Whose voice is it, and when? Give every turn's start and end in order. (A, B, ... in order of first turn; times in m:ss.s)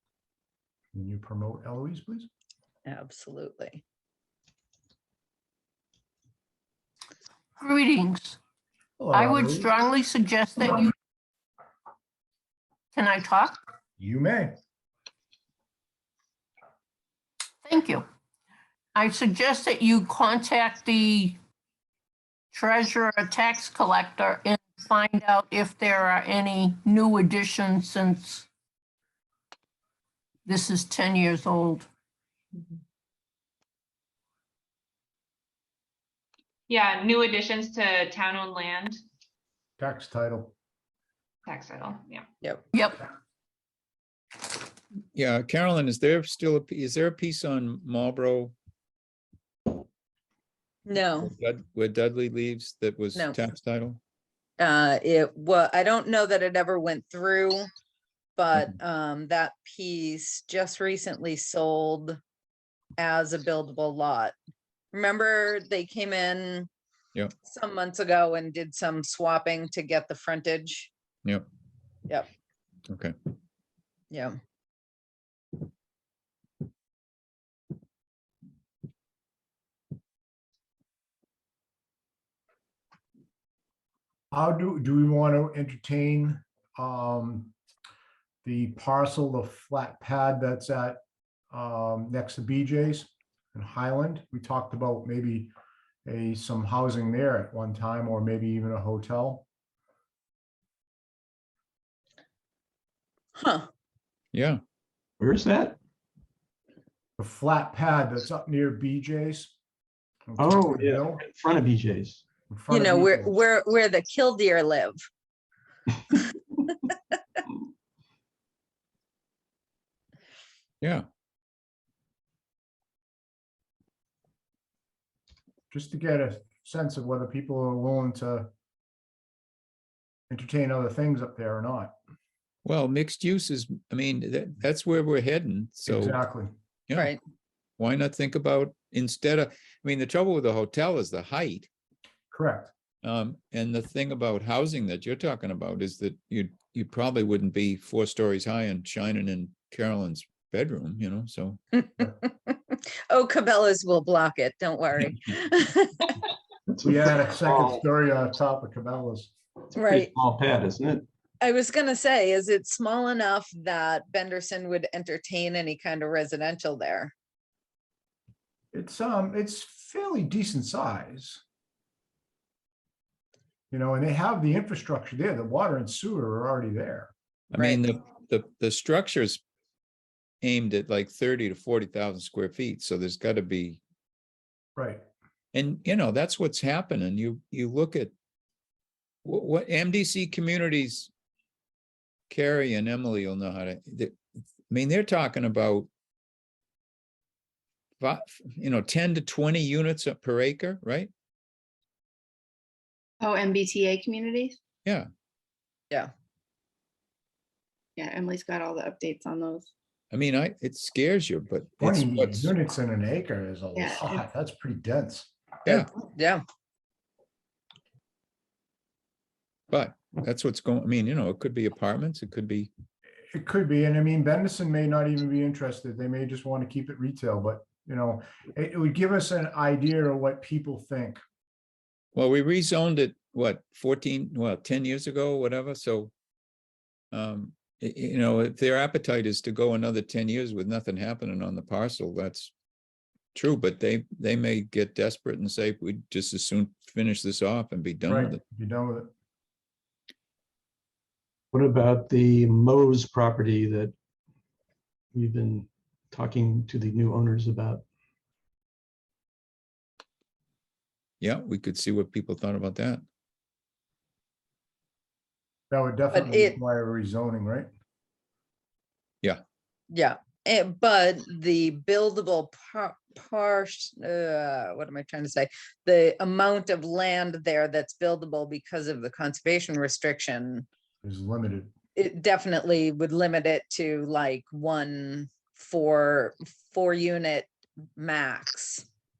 0:00.9-0:02.3 A
0:02.8-0:03.8 B
0:07.6-0:08.4 C
0:09.0-0:09.7 A
0:09.1-0:10.9 C
0:12.9-0:13.6 C
0:14.0-0:14.6 A
0:17.6-0:18.0 C
0:18.9-0:21.4 C
0:22.5-0:28.5 C
0:30.4-0:31.8 C
0:36.7-0:39.0 D
0:39.8-0:40.5 A
0:41.5-0:42.2 D
0:42.7-0:43.0 C
0:45.1-0:48.5 E
0:50.8-0:51.3 B
0:51.2-0:54.0 E
0:54.6-0:57.7 B
0:58.4-1:02.2 B
1:03.0-1:04.3 B
1:04.9-1:06.7 B
1:07.4-1:10.9 B
1:12.9-1:13.1 E
1:24.3-1:27.5 A
1:28.4-1:31.0 A
1:31.5-1:35.5 A
1:36.0-1:39.4 A
1:43.4-1:43.7 B
1:44.3-1:44.6 E
1:45.2-1:45.8 F
1:47.2-1:49.5 A
1:50.3-1:51.2 A
1:50.4-1:52.2 F
1:52.5-1:53.3 A
1:52.7-1:55.0 B
2:05.7-2:08.5 A
2:10.3-2:11.9 A
2:12.6-2:16.2 E
2:15.9-2:16.5 A
2:16.9-2:17.2 B
2:17.8-2:21.7 E
2:22.3-2:22.7 A
2:23.0-2:31.6 E
2:31.7-2:36.2 B
2:36.7-2:37.8 F
2:36.8-2:39.3 A
2:39.7-2:41.1 F
2:39.7-2:40.1 B
2:41.4-2:47.1 B
2:48.7-2:51.4 A
2:53.7-2:57.1 A
2:57.5-2:59.4 E
2:57.6-2:57.8 B
3:00.4-3:03.8 E
3:04.8-3:05.0 A
3:05.5-3:08.1 E
3:09.2-3:11.1 E
3:12.3-3:14.2 E
3:14.7-3:15.9 E
3:18.0-3:21.1 E
3:23.2-3:24.6 G
3:28.0-3:29.7 G
3:30.1-3:32.5 E
3:31.8-3:35.3 A
3:33.8-3:34.2 G
3:35.7-3:36.4 B
3:39.7-3:42.7 E
3:43.3-3:51.2 A
3:52.1-3:56.1 E
3:57.1-4:02.5 E
4:03.3-4:08.4 E
4:08.1-4:09.1 A
4:11.5-4:13.9 F
4:15.1-4:17.8 F
4:21.2-4:23.0 E
4:25.7-4:27.7 A
4:26.1-4:26.6 B
4:29.9-4:40.6 B
4:41.0-4:41.7 A
4:41.9-4:48.9 B